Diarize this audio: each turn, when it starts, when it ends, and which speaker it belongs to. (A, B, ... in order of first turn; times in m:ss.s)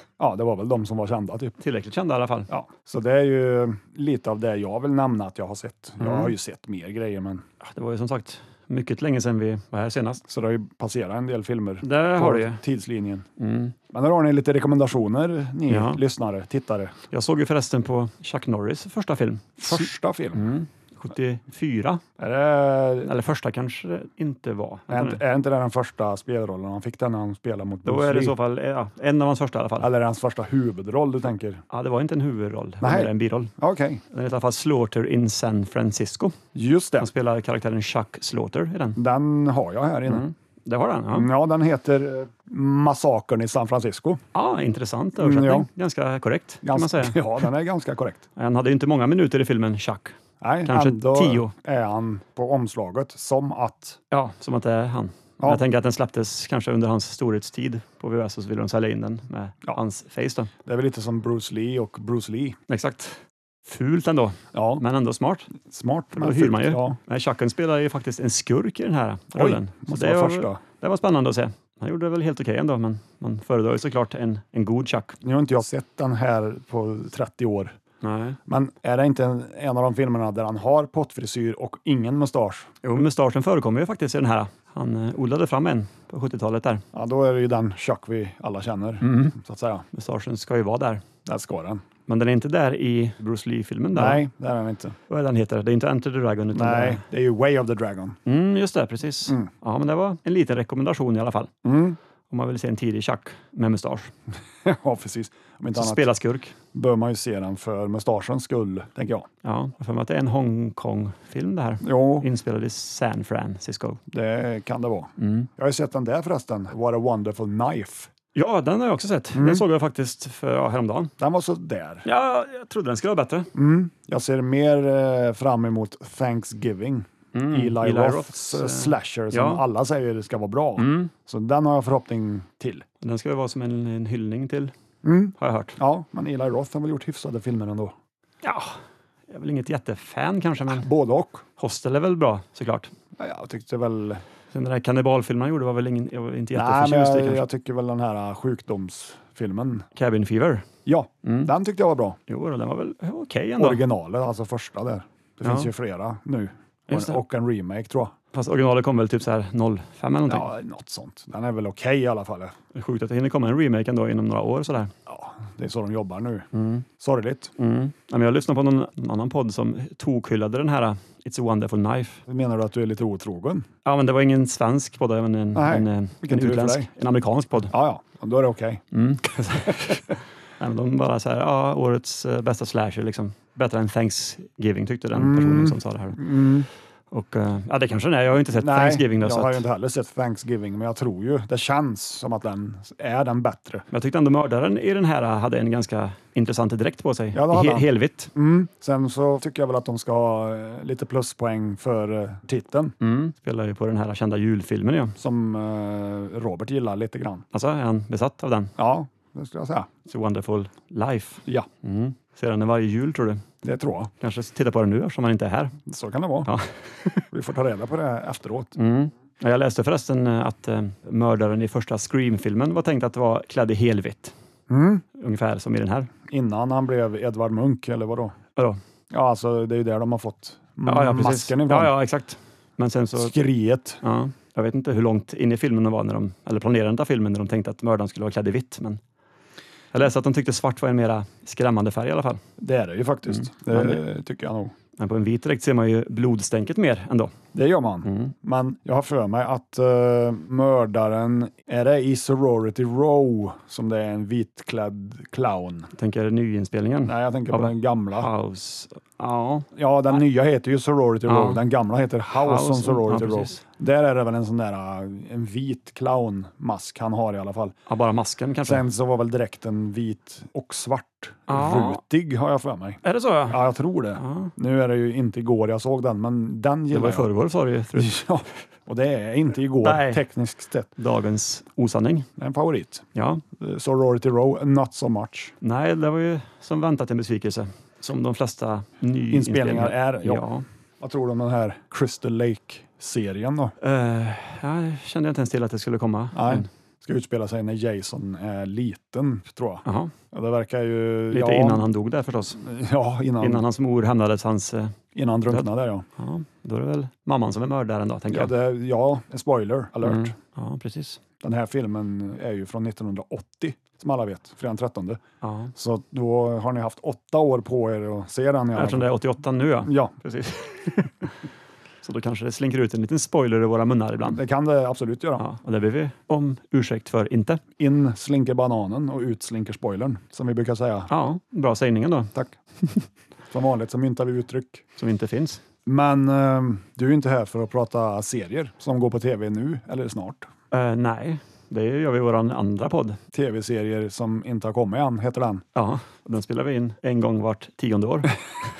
0:00.2-0:01.5 A
0:01.6-0:02.5 B
0:02.5-0:07.4 A
0:06.0-0:06.3 B
0:07.6-0:10.2 B
0:10.3-0:13.3 A
0:11.8-0:12.6 B
0:13.4-0:13.7 B
0:13.9-0:17.0 A
0:15.7-0:16.0 B
0:17.1-0:22.0 B
0:19.6-0:20.5 A
0:22.2-0:23.1 A
0:23.0-0:25.2 B
0:24.9-0:28.4 A
0:27.8-0:29.9 B
0:29.8-0:31.6 A
0:31.7-0:33.5 B
0:32.8-0:34.0 A
0:34.1-0:36.4 B
0:36.5-0:37.1 A
0:37.0-0:39.0 B
0:39.0-0:40.2 A
0:40.1-0:41.3 B
0:41.1-0:44.2 A
0:44.3-0:47.2 B
0:45.2-0:45.7 A
0:46.6-0:48.2 A
0:48.4-0:51.5 B
0:50.4-0:54.0 A
0:54.1-1:00.5 B
0:55.4-0:55.6 A
1:00.6-1:02.6 A
1:02.7-1:05.5 B
1:04.5-1:04.8 A
1:05.5-1:07.0 A
1:06.1-1:15.2 B
1:09.3-1:10.6 A
1:15.2-1:17.8 A
1:18.0-1:18.4 B
1:18.5-1:22.7 A
1:22.8-1:26.8 B
1:26.9-1:29.8 A
1:29.0-1:29.4 B
1:29.9-1:31.0 B
1:31.2-1:31.8 A
1:32.1-1:34.2 B
1:33.9-1:35.0 A
1:35.1-1:37.0 B
1:36.5-1:38.2 A
1:38.2-1:41.5 B
1:39.2-1:39.5 A
1:41.6-1:42.0 A
1:42.3-1:44.1 B
1:44.6-1:46.1 A
1:45.8-1:46.5 B
1:46.7-1:49.3 A
1:49.4-1:54.0 B
1:51.8-1:52.3 A
1:54.1-1:58.1 A
1:55.2-1:55.5 B
1:58.3-2:01.1 B
1:59.3-1:59.6 A
2:01.2-2:02.0 A
2:02.0-2:03.5 B
2:03.5-2:12.8 A
2:07.3-2:09.6 B
2:10.8-2:11.1 B
2:13.0-2:14.7 B
2:15.0-2:17.9 A
2:15.4-2:15.8 B
2:18.4-2:18.8 B
2:19.3-2:20.9 B
2:20.7-2:21.4 A
2:21.6-2:22.9 B
2:23.2-2:24.2 A
2:24.5-2:27.4 B
2:26.5-2:29.8 A
2:29.9-2:30.7 B
2:30.8-2:32.2 A
2:31.2-2:31.5 B
2:32.3-2:33.8 B
2:33.6-2:38.1 A
2:35.4-2:35.7 B
2:36.9-2:37.2 B
2:38.3-2:40.5 B
2:40.3-2:42.5 A
2:42.7-2:44.9 B
2:45.1-2:46.5 A
2:46.5-2:46.8 B
2:47.0-2:47.5 A
2:47.6-2:52.2 B
2:52.3-2:53.7 A
2:53.8-2:57.7 B
2:55.5-2:56.9 A
2:57.7-2:58.8 A
2:58.9-3:06.3 B
3:05.1-3:06.7 A
3:07.1-3:09.6 B
3:08.5-3:13.8 A
3:13.9-3:18.3 B
3:17.3-3:22.9 A
3:23.0-3:25.1 B
3:25.2-3:27.4 A
3:27.5-3:28.7 B
3:28.8-3:29.9 A
3:30.1-3:33.4 B
3:33.6-3:34.1 A
3:34.2-3:35.8 B
3:35.8-3:36.5 A
3:36.4-3:37.2 B
3:37.3-3:38.7 A
3:38.8-3:44.3 B
3:44.7-3:45.0 A
3:45.1-3:46.1 B
3:46.3-3:48.3 A
3:49.1-3:51.9 A
3:50.8-3:53.3 B
3:53.2-3:54.0 A
3:54.0-3:59.0 B
3:59.9-4:02.4 B
4:02.6-4:04.7 A
4:03.3-4:04.0 B
4:05.0-4:07.3 B
4:07.5-4:15.9 A
4:08.0-4:08.3 B
4:15.9-4:19.7 B
4:17.0-4:18.3 A
4:19.7-4:27.8 A
4:21.3-4:21.6 B
4:22.4-4:23.6 B
4:27.9-4:28.8 B
4:28.6-4:37.3 A
4:31.5-4:32.0 B
4:33.0-4:33.6 B
4:34.2-4:34.5 B
4:36.9-4:38.2 B
4:37.9-4:40.9 A
4:39.8-4:40.2 B
4:41.0-4:42.3 B
4:42.4-4:43.0 A
4:43.1-4:43.4 B
4:43.6-4:45.5 A
4:45.6-4:50.6 B
4:49.3-4:50.4 A
4:51.0-4:53.7 A
4:53.8-4:56.7 B
4:56.3-5:01.8 A
4:59.8-5:00.1 B
5:01.3-5:02.6 B
5:02.6-5:03.6 A
5:03.4-5:05.0 B
5:05.1-5:06.0 A
5:05.5-5:08.5 B
5:08.3-5:10.3 A
5:10.0-5:11.2 B
5:11.4-5:15.2 A
5:15.4-5:15.7 B
5:15.8-5:19.1 A
5:18.8-5:21.3 B
5:19.8-5:20.1 A
5:22.0-5:24.4 B
5:24.2-5:25.4 A
5:25.4-5:27.6 B
5:27.8-5:31.1 A
5:31.1-5:32.3 B
5:33.5-5:34.8 A
5:35.0-5:35.6 B
5:35.8-5:40.5 A
5:40.7-5:43.2 B
5:43.3-5:45.6 A
5:45.7-5:48.4 B